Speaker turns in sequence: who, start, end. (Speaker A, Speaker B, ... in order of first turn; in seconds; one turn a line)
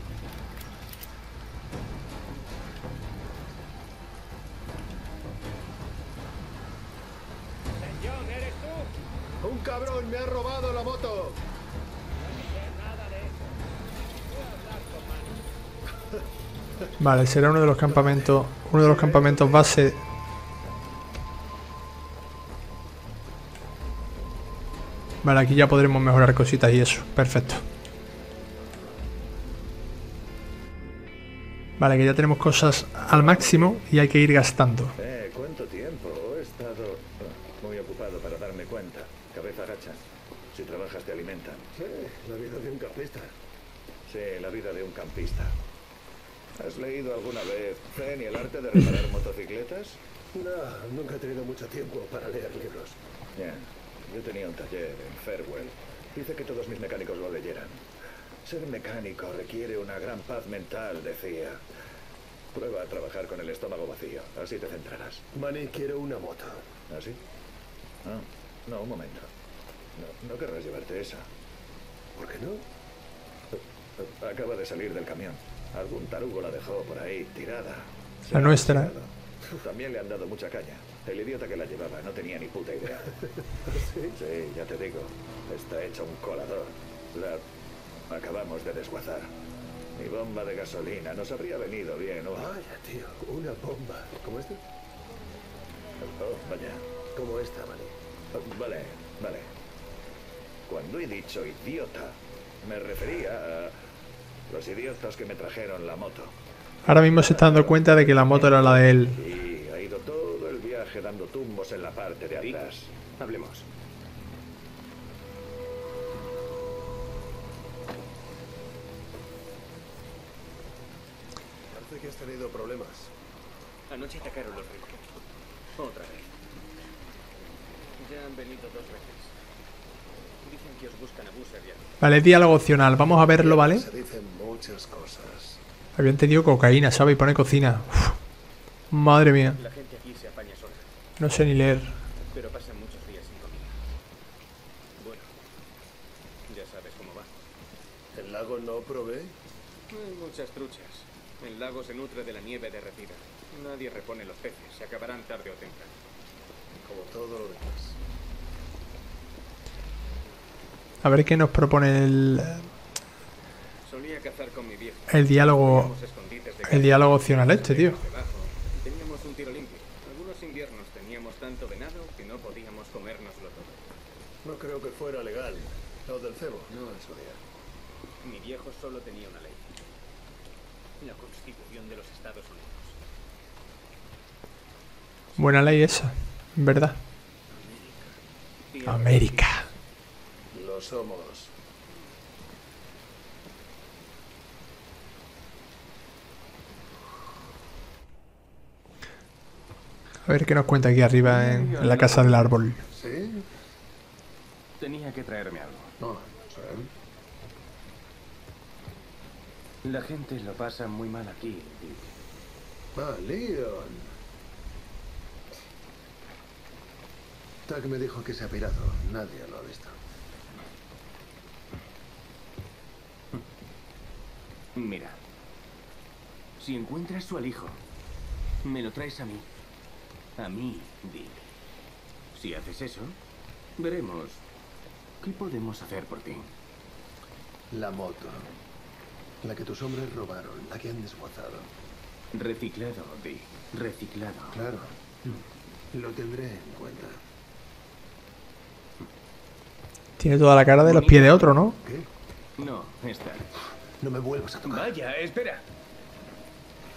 Speaker A: 8.0-8.8
Speaker B: 9.4-11.4
Speaker A: 12.5-13.3
Speaker A: 14.5-15.2
Speaker C: 17.0-20.0
Speaker B: 17.8-19.8
Speaker C: 25.2-27.6
Speaker C: 31.8-35.0
Speaker D: 33.1-33.7
Speaker D: 35.0-41.7
Speaker B: 41.7-43.3
Speaker D: 44.0-45.6
Speaker D: 46.5-50.0
Speaker B: 50.3-53.0
Speaker D: 53.3-57.9
Speaker D: 58.4-61.6
Speaker D: 62.5-65.2
Speaker B: 65.3-66.7
Speaker D: 66.9-67.2
Speaker D: 68.0-69.3
Speaker D: 69.9-71.3
Speaker B: 72.1-72.6
Speaker D: 73.6-83.2
Speaker C: 78.3-78.9
Speaker B: 83.1-84.2
Speaker D: 84.1-87.4
Speaker D: 88.1-89.3
Speaker D: 89.9-92.5
Speaker B: 92.3-94.6
Speaker D: 96.0-96.8
Speaker B: 97.1-98.0
Speaker D: 98.3-99.5
Speaker D: 100.7-103.8
Speaker D: 104.5-106.3
Speaker C: 106.8-109.2
Speaker D: 107.2-112.9
Speaker A: 112.3-112.6
Speaker A: 113.2-113.7
Speaker B: 121.7-123.1
Speaker A: 123.9-125.1
Speaker A: 125.8-126.3
Speaker A: 128.0-129.3
Speaker A: 130.4-131.9
Speaker C: 132.0-133.9
Speaker B: 132.9-135.6
Speaker C: 135.9-138.2
Speaker C: 138.9-139.6
Speaker A: 139.5-140.9
Speaker C: 141.2-141.9
Speaker A: 142.3-143.8
Speaker A: 145.0-145.3
Speaker A: 146.5-147.4
Speaker B: 148.1-149.3
Speaker A: 149.9-156.0
Speaker B: 156.8-158.0
Speaker C: 161.0-162.7
Speaker A: 163.8-173.8
Speaker C: 165.1-165.9
Speaker C: 166.6-168.0
Speaker B: 174.4-177.4
Speaker A: 178.2-179.7
Speaker A: 181.0-183.0
Speaker C: 185.4-187.0
Speaker A: 188.7-189.7
Speaker C: 188.8-189.7
Speaker B: 190.5-191.5
Speaker C: 200.2-202.8
Speaker A: 201.2-202.5
Speaker B: 202.9-203.5
Speaker A: 204.8-205.9
Speaker B: 206.0-206.9
Speaker A: 209.8-212.1
Speaker B: 212.9-214.1
Speaker B: 217.7-220.0
Speaker A: 224.7-225.2
Speaker A: 226.6-227.8
Speaker A: 228.6-229.5
Speaker A: 230.4-231.4
Speaker A: 232.3-233.2
Speaker A: 233.8-234.4
Speaker A: 235.2-236.5
Speaker B: 237.7-238.5
Speaker B: 239.4-241.7
Speaker A: 242.3-244.6
Speaker B: 244.5-244.9
Speaker B: 245.9-247.2
Speaker C: 250.2-251.8
Speaker A: 250.8-251.5
Speaker B: 251.8-252.1
Speaker A: 252.6-253.5
Speaker B: 254.0-255.0
Speaker A: 254.6-255.6